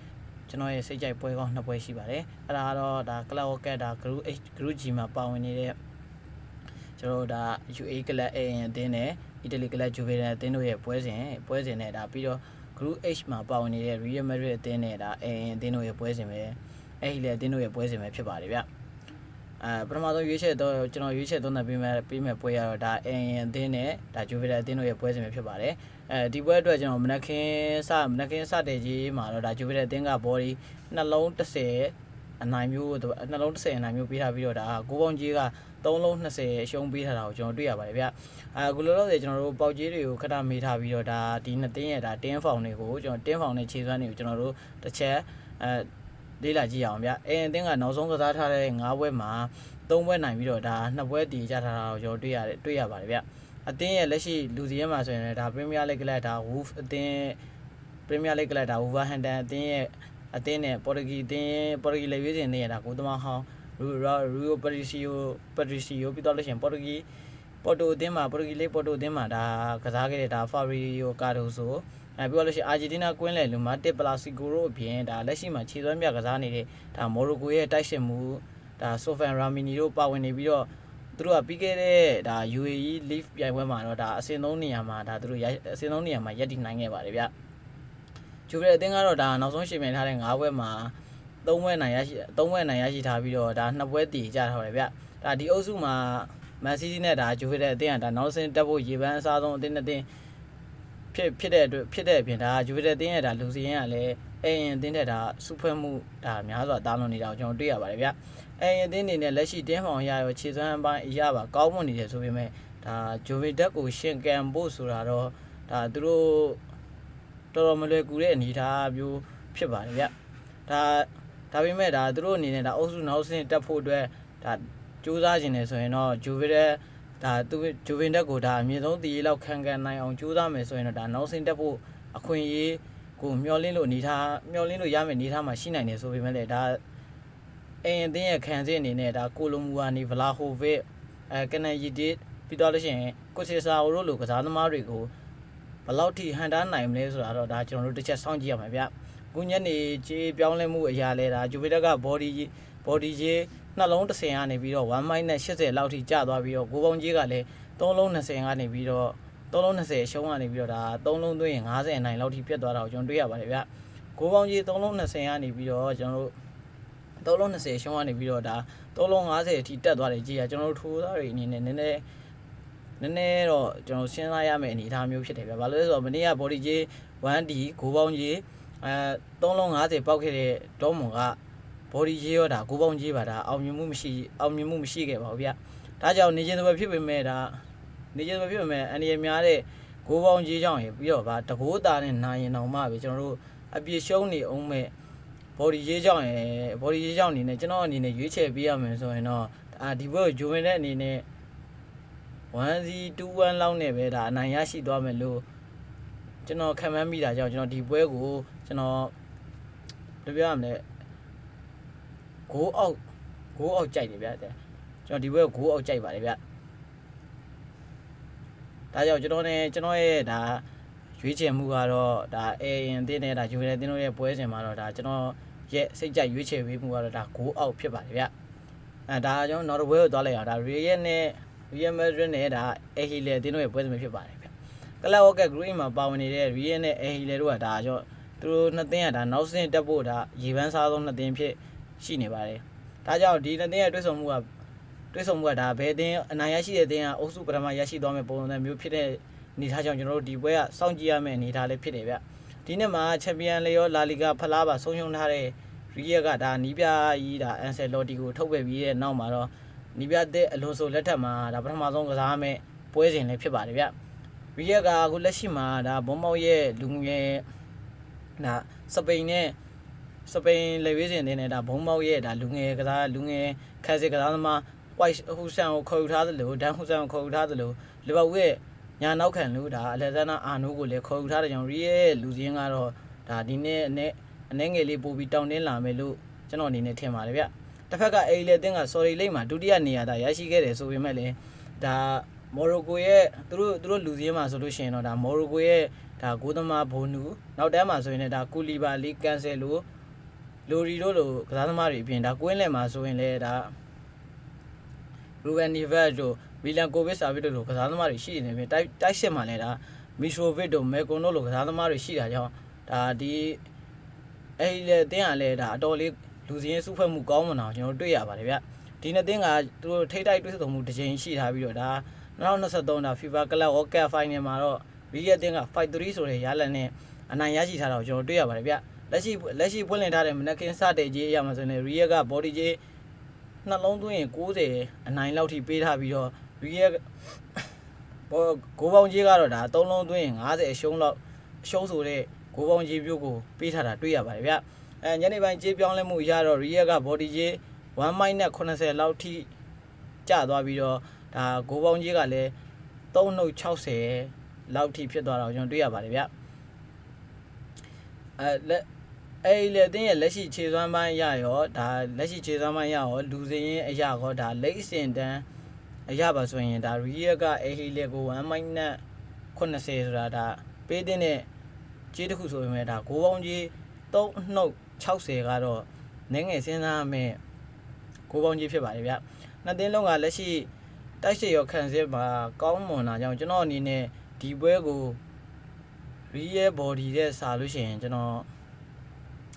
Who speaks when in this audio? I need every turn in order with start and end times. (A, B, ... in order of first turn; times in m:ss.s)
0:00.5-0:05.8 A
0:07.0-0:18.7 A
0:19.6-0:57.4 A
0:58.1-1:07.0 A
1:07.6-1:27.3 A
1:28.5-1:40.1 A
1:41.1-1:56.6 A
1:57.5-2:00.1 A
2:00.7-2:16.8 A
2:17.8-2:25.1 A
2:25.8-2:46.3 A
2:47.2-2:52.0 A
2:53.0-3:01.4 A
3:01.9-3:07.6 A
3:08.1-3:14.9 A
3:15.6-3:21.2 A
3:22.5-3:25.4 A
3:26.4-3:29.1 A
3:30.2-3:30.8 A
3:32.5-3:33.0 A
3:33.5-3:36.4 A
3:38.9-3:40.6 A
3:41.2-3:48.3 A
3:49.1-4:04.5 A
4:05.1-4:23.9 A
4:24.6-4:27.5 A
4:28.4-4:29.6 A
4:30.2-4:59.8 A
5:00.7-5:03.8 A
5:05.4-5:13.6 A
5:14.6-5:32.8 A
5:33.6-5:37.7 A
5:38.3-5:49.5 A
5:50.2-5:52.5 A
5:53.1-5:56.3 A
5:58.4-5:58.8 A
5:59.4-6:05.4 A
6:06.1-6:09.0 A
6:09.5-6:11.5 A
6:12.1-6:17.4 A
6:18.3-6:20.7 A
6:21.2-6:25.2 A
6:26.3-6:28.5 A